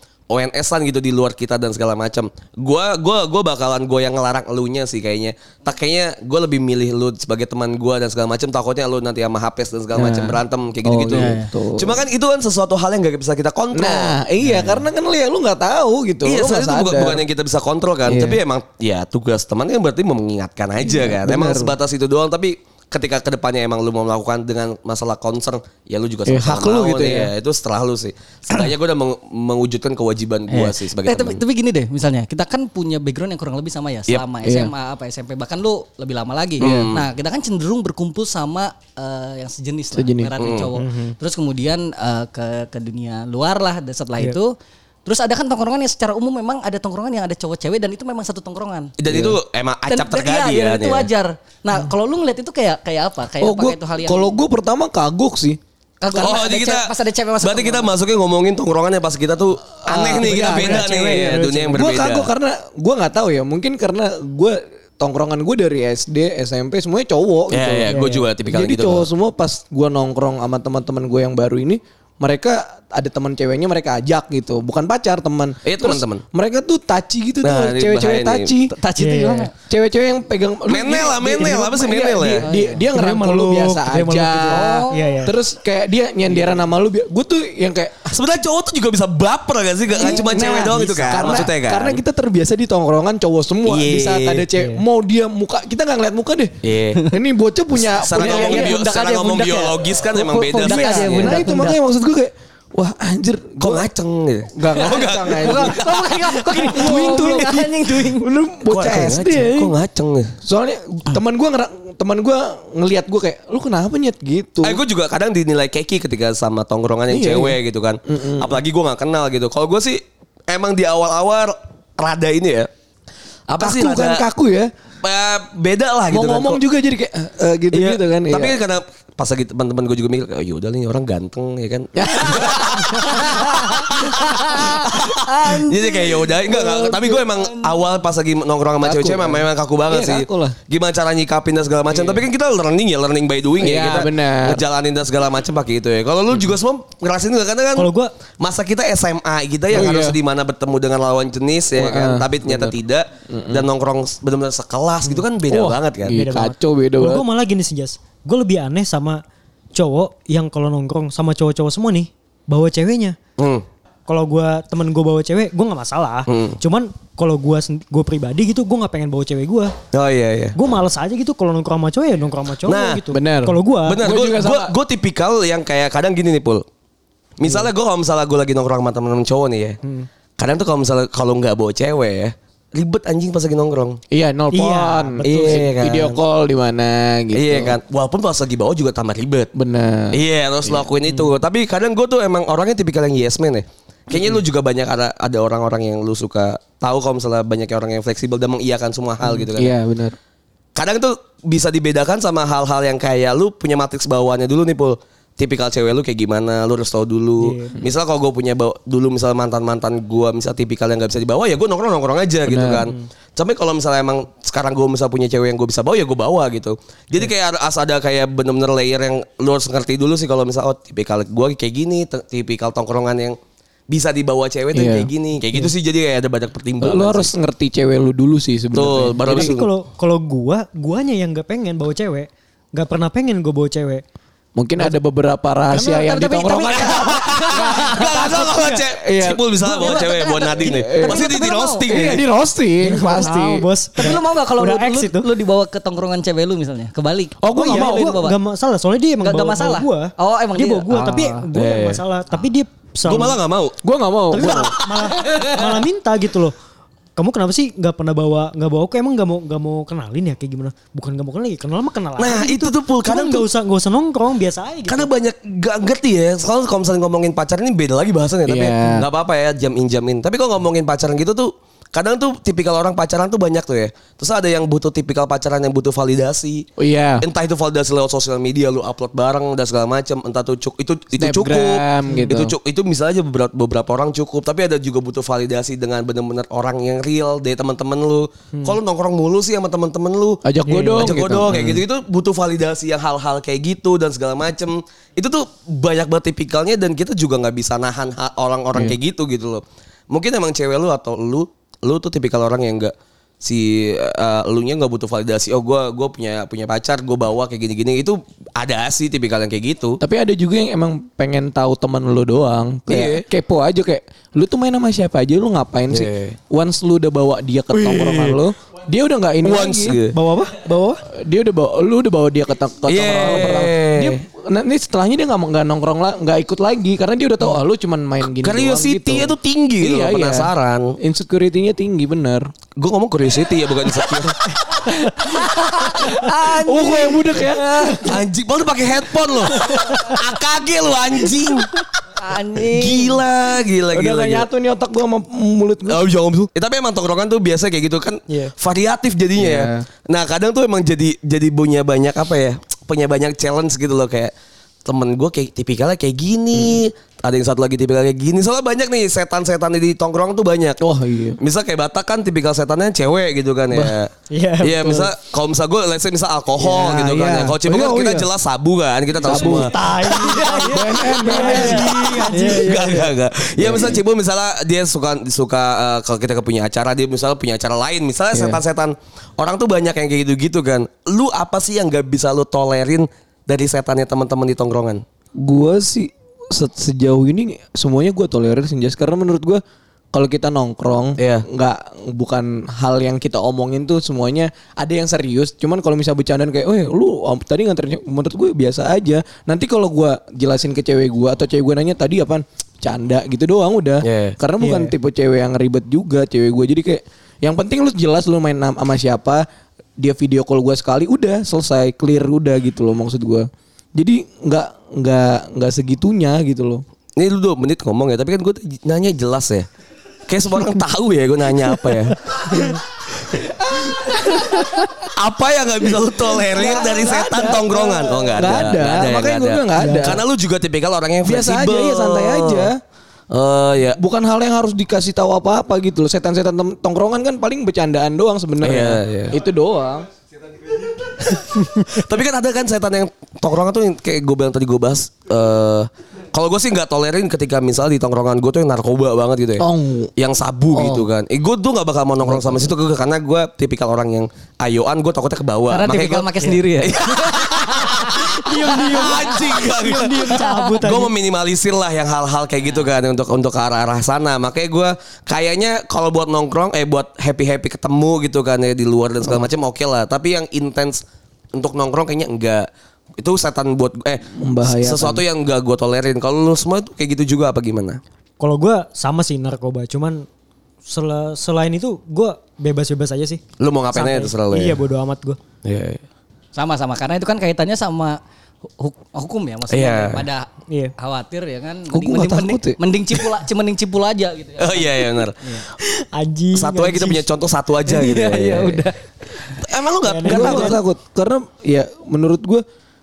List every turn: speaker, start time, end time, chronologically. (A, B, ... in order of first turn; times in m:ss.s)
0:00.3-0:14.2 A
0:09.9-0:12.0 B
0:11.1-0:11.5 C
0:13.7-0:17.2 B
0:16.2-0:31.4 A
0:18.1-0:18.4 B
0:20.8-0:21.7 B
0:26.3-0:27.3 B
0:30.5-0:44.5 C
0:34.4-0:34.7 B
0:36.6-0:37.0 A
0:36.6-0:36.9 B
0:39.9-0:40.3 B
0:40.4-0:40.7 A
0:40.8-0:41.1 D
0:45.0-0:48.9 C
0:49.0-0:51.1 A
0:49.1-0:49.4 B
0:49.9-0:54.4 C
0:53.4-0:55.6 B
0:56.0-0:57.9 C
0:56.2-1:02.3 A
0:59.8-1:00.9 B
1:00.1-1:01.8 D
1:01.7-1:18.8 B
1:07.5-1:09.1 A
1:07.9-1:08.2 D
1:15.6-1:16.2 A
1:17.4-1:18.5 A
1:18.7-1:19.5 C
1:19.0-1:19.5 D
1:19.6-1:28.1 B
1:20.7-1:22.4 A
1:22.4-1:22.9 C
1:22.9-1:25.3 D
1:24.5-1:25.2 C
1:28.1-1:32.0 A
1:29.9-1:43.9 B
1:33.7-1:34.4 A
1:34.6-1:34.8 D
1:36.6-1:37.1 A
1:37.8-1:41.4 A
1:38.2-1:38.8 C
1:40.4-1:41.8 C
1:43.6-1:46.3 A
1:44.5-1:45.9 B
1:45.3-1:48.3 C
1:46.5-1:49.7 B
1:48.7-1:50.3 A
1:50.4-1:54.8 B
1:54.6-2:02.7 A
1:57.1-1:58.6 B
2:03.5-2:04.2 A
2:03.6-2:04.7 B
2:05.0-2:06.6 A
2:06.1-2:08.6 B
2:07.7-2:27.9 A
2:12.0-2:13.8 B
2:14.3-2:17.8 C
2:16.5-2:17.2 B
2:18.8-2:20.6 B
2:21.9-2:22.2 B
2:23.6-2:24.6 B
2:27.8-2:28.1 D
2:28.4-2:36.2 A
2:29.7-2:30.2 B
2:31.8-2:32.8 B
2:33.3-2:33.7 B
2:35.0-2:37.2 B
2:36.1-2:39.2 D
2:39.8-2:43.2 D
2:43.4-2:43.6 A
2:44.1-2:49.7 D
2:46.3-2:46.6 A
2:49.9-2:50.6 A
2:50.6-2:54.0 D
2:52.6-2:53.0 A
2:53.1-2:54.8 B
2:53.8-2:56.6 A
2:57.4-2:59.8 A
2:59.8-3:00.1 D
3:00.4-3:04.0 A
3:04.1-3:07.8 B
3:04.5-3:05.7 D
3:05.2-3:06.2 A
3:07.3-3:09.5 A
3:09.5-3:11.1 B
3:10.1-3:19.7 A
3:14.1-3:14.4 B
3:19.2-3:20.2 B
3:20.8-3:43.4 A
3:27.4-3:27.7 D
3:32.4-3:32.9 B
3:43.9-3:47.3 A
3:44.7-3:45.7 B
3:46.8-3:49.6 B
3:48.7-3:49.7 A
3:49.3-3:54.0 D
3:54.6-3:59.9 B
3:55.7-3:58.2 C
3:55.7-3:56.0 D
3:56.8-4:02.2 A
3:58.4-3:58.8 D
3:59.7-4:01.9 C
4:00.6-4:01.2 B
4:01.9-4:04.0 B
4:02.8-4:05.3 D
4:04.0-4:08.4 C
4:07.4-4:08.2 B
4:07.5-4:13.4 D
4:09.2-4:11.5 C
4:11.5-4:12.0 A
4:13.0-4:13.8 A
4:13.8-4:14.8 B
4:14.3-4:16.5 D
4:14.4-4:14.8 A
4:17.2-4:25.1 D
4:22.2-4:23.5 A
4:24.9-4:36.7 A
4:28.5-4:29.1 B
4:36.8-4:37.2 B
4:37.2-4:50.4 A
4:41.2-4:42.5 B
4:50.4-4:51.8 B
4:50.7-4:51.2 D
4:51.0-5:10.0 A
5:10.0-5:20.0 B
5:12.9-5:13.2 A
5:15.9-5:16.4 A
5:17.7-5:18.4 A
5:19.4-5:20.2 A
5:20.1-5:21.0 D
5:21.1-5:32.5 B
5:22.9-5:24.2 A
5:28.4-5:31.0 A
5:32.8-5:34.4 A
5:35.1-5:38.2 B
5:35.2-5:38.1 C
5:38.0-5:41.8 A
5:42.2-5:43.2 C
5:42.7-5:44.5 A
5:43.9-5:46.2 B
5:45.9-5:54.3 A
5:49.4-5:49.9 B
5:54.8-6:00.8 A
6:00.8-6:01.4 B
6:01.4-6:25.0 A
6:03.7-6:04.0 B
6:04.3-6:05.1 D
6:06.6-6:08.3 B
6:09.2-6:12.5 B
6:09.3-6:13.0 D
6:10.6-6:13.0 C
6:13.6-6:14.0 B
6:18.3-6:18.6 B
6:25.4-6:29.6 B
6:30.1-6:49.4 B
6:31.2-6:31.5 A
6:44.0-6:44.4 A
6:44.6-6:44.9 D
6:50.0-6:56.8 B
6:57.2-6:59.7 A
7:00.3-7:02.8 A
7:04.0-7:12.7 A
7:06.4-7:10.2 B
7:09.8-7:10.2 D
7:11.2-7:12.8 B
7:13.3-7:14.0 A
7:14.0-7:20.1 B
7:18.6-7:19.4 A
7:21.2-7:51.0 A
7:29.6-7:30.1 B
7:32.2-7:32.7 B
7:35.7-7:38.2 C
7:38.3-7:41.1 D
7:38.7-7:39.2 C
7:40.4-7:40.7 C
7:51.5-7:58.0 A
7:54.3-7:55.2 B
7:58.4-8:00.3 D
8:00.9-8:03.4 D
8:03.6-8:04.8 A
8:03.9-8:05.4 D
8:05.6-8:06.0 A
8:06.6-8:08.2 C
8:08.8-8:15.7 C
8:09.7-8:10.2 A
8:11.9-8:12.8 B
8:14.6-8:15.4 A
8:15.8-8:17.3 D
8:16.5-8:18.8 A
8:17.9-8:18.9 C
8:18.3-8:18.9 B
8:19.6-8:20.8 A
8:20.0-8:20.8 D
8:20.2-8:22.6 B